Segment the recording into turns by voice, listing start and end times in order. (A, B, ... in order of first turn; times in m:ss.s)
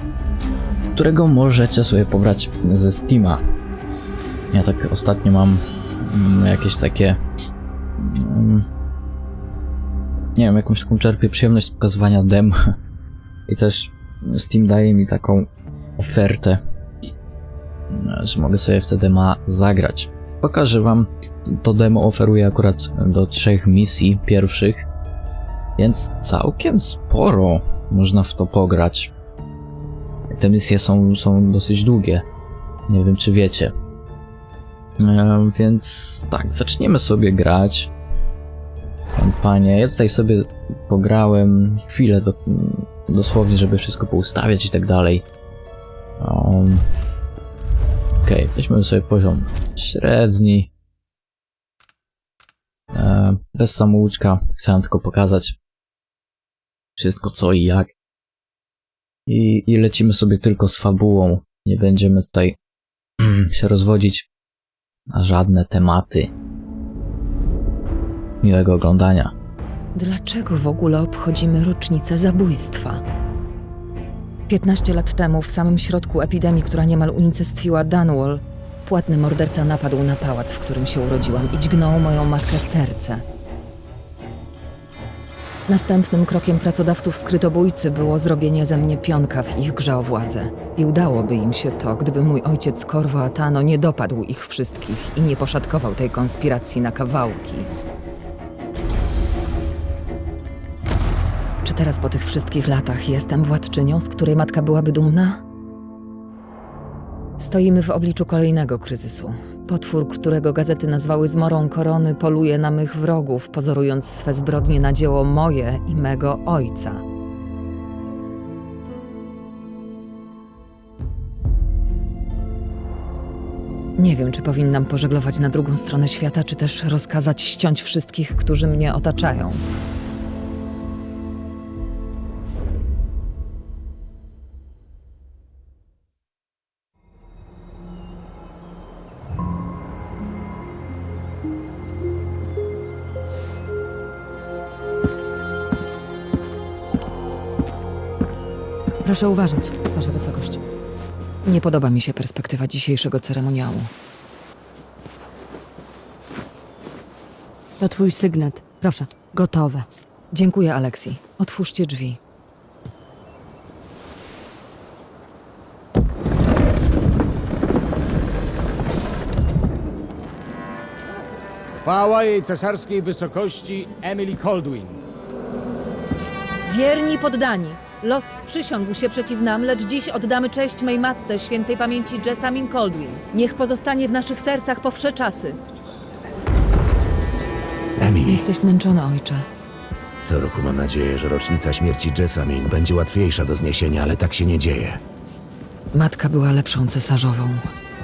0:01.0-0:03.4 A
0:04.5-0:07.2 A
0:08.0-0:08.7 A
0:10.4-0:12.7 A
0:13.5-0:16.6 A
0:17.9-0:24.9 A
0:25.8-0:29.1 A
0:30.3-0:32.2 A
0:32.9-0:33.7 A
0:35.0-0:37.9 A
0:39.2-0:45.2 A
0:46.2-0:46.8 A
0:48.2-0:50.7 A
0:52.9-0:55.6 A
0:57.0-0:57.9 A
0:59.3-1:02.6 A
1:03.2-1:04.3 A
1:05.1-1:06.3 A
1:08.4-1:09.3 A
1:10.0-1:13.0 B
1:14.5-1:23.2 B
1:25.7-1:37.7 B
1:41.6-1:45.4 B
1:47.4-1:57.0 B
2:04.0-2:09.6 B
2:29.0-2:30.6 C
2:31.5-2:33.9 B
2:37.8-2:39.9 C
2:40.3-2:42.2 B
2:51.8-2:55.0 D
2:56.7-3:05.6 E
3:08.0-3:08.4 F
3:08.2-3:09.5 B
3:10.2-3:15.0 F
3:15.9-3:17.6 B